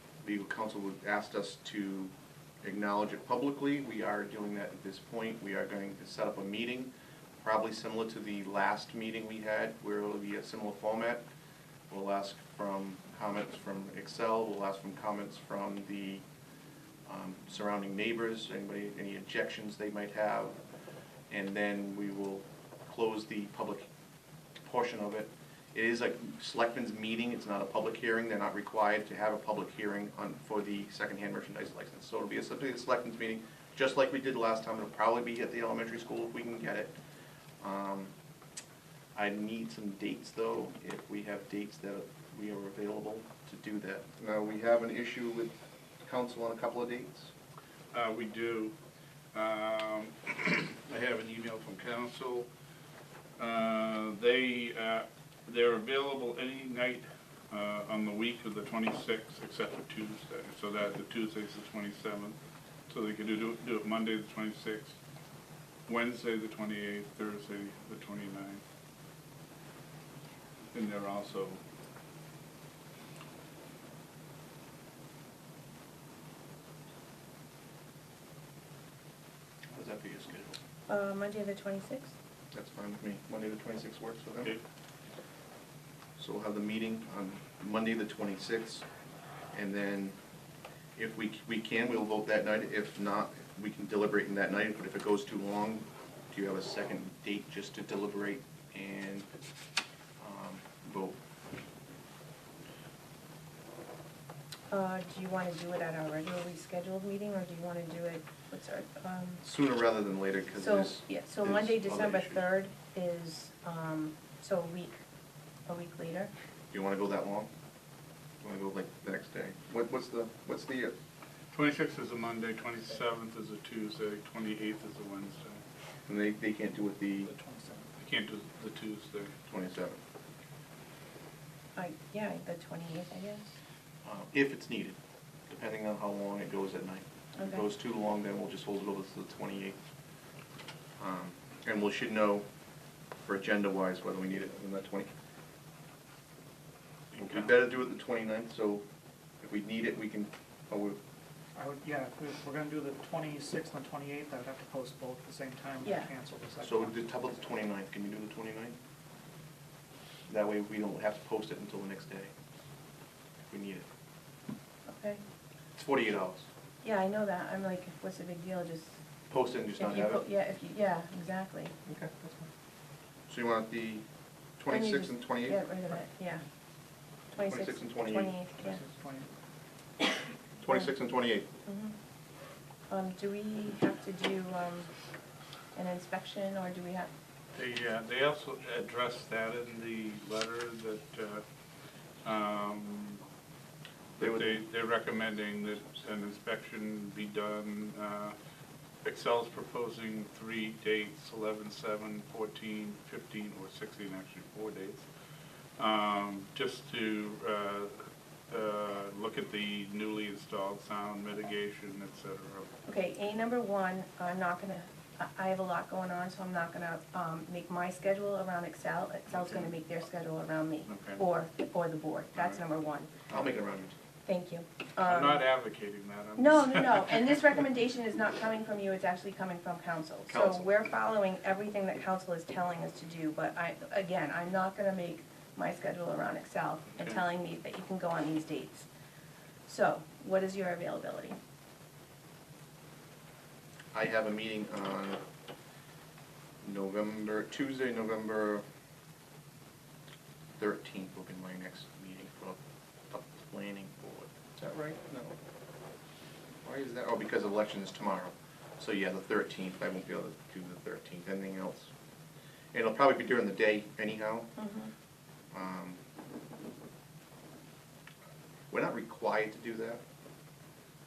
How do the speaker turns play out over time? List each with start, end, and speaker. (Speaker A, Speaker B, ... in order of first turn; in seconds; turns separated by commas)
Speaker A: 0.2-2.1, Speaker A: 2.6-11.2, Speaker A: 11.9-16.2, Speaker A: 17.1-20.6, Speaker A: 21.3-23.9, Speaker A: 24.6-36.9, Speaker A: 37.6-38.1, Speaker A: 39.1-45.5, Speaker A: 46.0-47.3, Speaker B: 47.9-48.7, Speaker B: 49.3-52.5, Speaker B: 53.4-62.4, Speaker B: 62.9-65.0, Speaker B: 65.9-68.6, Speaker B: 70.7-71.6, Speaker A: 79.7-80.6, Speaker C: 80.9-82.1, Speaker A: 82.5-84.5, Speaker A: 86.2-88.8, Speaker A: 89.5-90.2, Speaker A: 91.0-99.2, Speaker A: 100.2-101.2, Speaker C: 104.7-109.4, Speaker A: 109.4-112.4, Speaker C: 110.6-115.0, Speaker C: 115.7-116.3, Speaker A: 116.7-117.5, Speaker A: 118.4-120.9, Speaker B: 121.5-125.6, Speaker A: 126.1-127.3, Speaker D: 127.3-127.9, Speaker B: 128.0-129.3, Speaker A: 129.5-130.0, Speaker C: 131.8-133.6, Speaker A: 134.0-134.9, Speaker A: 135.5-139.8, Speaker C: 137.4-137.6, Speaker A: 141.0-142.4, Speaker A: 143.2-145.1, Speaker B: 147.2-147.5, Speaker A: 147.2-148.8, Speaker A: 149.4-151.0, Speaker D: 151.5-157.0, Speaker C: 155.8-156.1, Speaker A: 156.6-158.8, Speaker A: 160.3-162.3, Speaker A: 163.5-163.8, Speaker C: 164.9-165.2, Speaker A: 165.7-166.5, Speaker C: 166.8-168.9, Speaker A: 169.3-170.2, Speaker C: 169.8-171.7, Speaker A: 171.8-172.5, Speaker A: 173.3-174.0, Speaker A: 174.6-175.6, Speaker C: 174.7-176.4, Speaker C: 177.3-178.8, Speaker A: 177.5-178.3, Speaker D: 178.6-179.3, Speaker A: 180.6-181.5, Speaker C: 181.7-181.9, Speaker C: 182.9-184.9, Speaker C: 185.7-187.1, Speaker B: 187.5-191.4, Speaker B: 192.2-193.2, Speaker B: 194.2-198.3, Speaker A: 194.2-194.6, Speaker B: 199.0-205.0, Speaker B: 205.8-212.7, Speaker C: 212.8-223.1, Speaker B: 220.9-221.2, Speaker A: 223.3-223.9, Speaker C: 224.2-225.4, Speaker B: 225.0-227.4, Speaker C: 226.4-238.9, Speaker A: 230.3-230.7, Speaker C: 239.7-241.4, Speaker A: 243.9-245.2, Speaker A: 246.6-248.6, Speaker A: 250.6-252.6, Speaker A: 253.1-255.3, Speaker A: 256.6-261.9, Speaker A: 262.7-264.5, Speaker C: 264.6-264.9, Speaker A: 265.5-266.0, Speaker A: 268.7-270.0